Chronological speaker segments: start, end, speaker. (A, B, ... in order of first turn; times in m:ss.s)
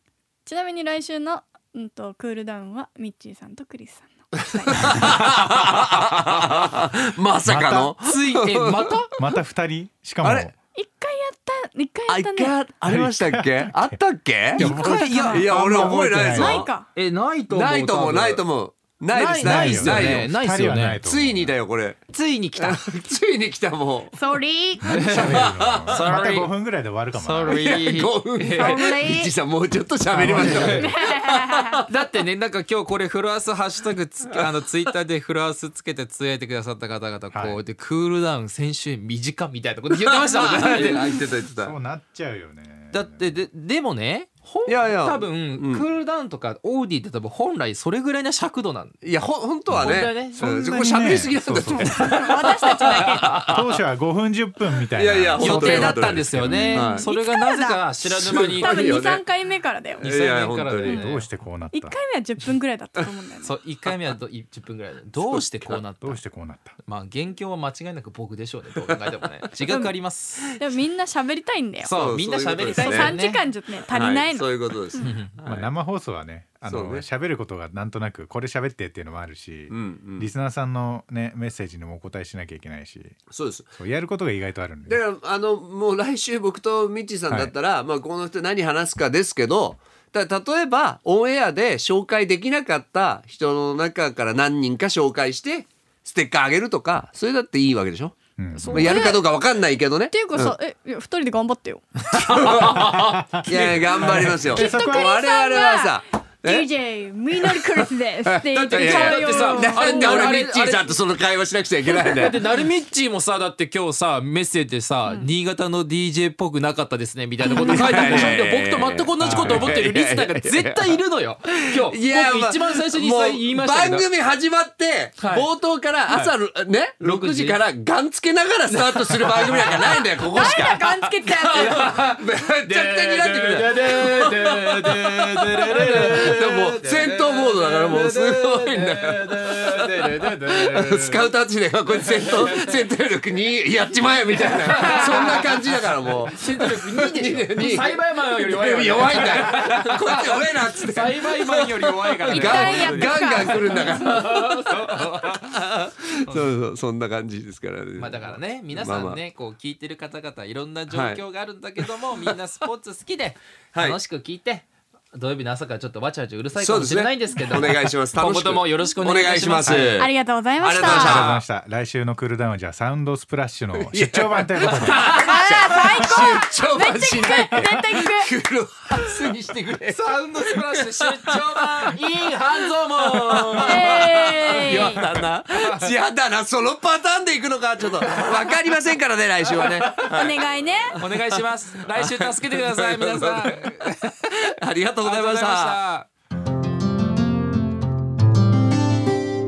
0:00.5-0:05.1 A
0:04.7-0:08.9 B
0:07.4-0:07.9 C
0:08.0-0:09.2 D
0:09.2-0:10.5 C
0:10.2-0:10.5 B
0:10.8-0:12.6 A
0:12.1-0:16.7 B
0:12.9-0:14.0 C
0:14.5-0:16.9 A
0:14.6-0:16.2 D
0:14.6-0:16.7 C
0:16.9-0:18.4 D
0:17.5-0:20.3 B
0:19.1-0:21.0 D
0:19.4-0:21.6 C
0:21.0-0:22.0 B
0:22.1-0:22.9 D
0:22.6-0:24.2 B
0:24.1-0:24.9 A
0:24.8-0:27.7 C
0:24.9-0:26.2 B
0:24.9-0:26.5 D
0:27.1-0:29.0 D
0:27.5-0:31.9 B
0:28.6-0:29.3 A
0:30.1-0:31.0 C
0:30.2-0:30.9 D
0:30.5-0:31.8 A
0:31.9-0:41.3 D
0:37.3-0:37.6 C
0:39.9-0:41.7 B
0:41.5-0:43.4 C
0:42.9-0:49.0 D
0:44.7-0:45.8 B
0:49.0-0:53.4 B
0:49.7-0:52.4 C
0:49.7-0:50.5 D
0:51.8-0:53.5 D
0:52.0-0:53.5 A
0:53.2-0:56.8 C
0:55.0-0:57.1 B
0:55.4-0:58.9 D
0:56.5-0:57.8 A
0:58.1-0:59.2 B
0:58.6-1:00.0 A
1:00.0-1:01.0 B
1:00.0-1:01.3 D
1:00.9-1:02.0 C
1:01.7-1:03.6 A
1:03.4-1:06.2 D
1:05.2-1:05.8 B
1:06.0-1:06.8 C
1:06.8-1:10.5 D
1:10.5-1:12.2 A
1:11.8-1:13.4 D
1:11.9-1:13.2 B
1:12.7-1:15.1 A
1:13.9-1:15.7 B
1:15.0-1:15.4 D
1:15.4-1:25.0 C
1:16.7-1:17.0 B
1:19.7-1:20.3 B
1:23.3-1:23.7 B
1:24.9-1:38.2 B
1:38.4-1:39.0 C
1:38.6-1:39.3 A
1:38.7-1:40.6 B
1:40.1-1:41.9 A
1:42.1-1:43.3 D
1:42.1-1:46.7 B
1:42.7-1:45.2 C
1:44.5-1:50.3 A
1:47.3-1:52.4 B
1:48.7-1:51.0 D
1:51.9-1:52.4 A
1:51.9-2:04.1 D
1:57.4-1:58.4 A
1:57.6-2:01.0 B
1:59.2-1:59.8 C
2:01.7-2:39.2 B
2:05.2-2:05.5 D
2:07.0-2:07.6 D
2:08.7-2:21.3 D
2:10.2-2:12.0 A
2:21.9-2:22.9 D
2:24.3-2:25.6 D
2:26.3-2:35.6 D
2:32.3-2:34.0 A
2:36.2-2:36.5 D
2:38.0-2:50.0 D
2:40.9-2:41.2 B
2:46.6-2:51.4 B
2:50.0-2:51.2 A
2:50.8-2:55.1 C
2:50.8-2:51.4 D
2:53.8-3:00.0 B
2:54.9-2:55.4 D
2:55.1-2:58.3 A
2:59.9-3:05.9 D
3:00.5-3:02.0 B
3:03.0-3:11.4 B
3:03.6-3:05.0 A
3:08.1-3:08.5 D
3:09.6-3:09.9 D
3:09.9-3:11.0 A
3:11.0-3:14.5 D
3:11.9-3:13.9 B
3:14.5-3:15.8 B
3:15.0-3:16.1 D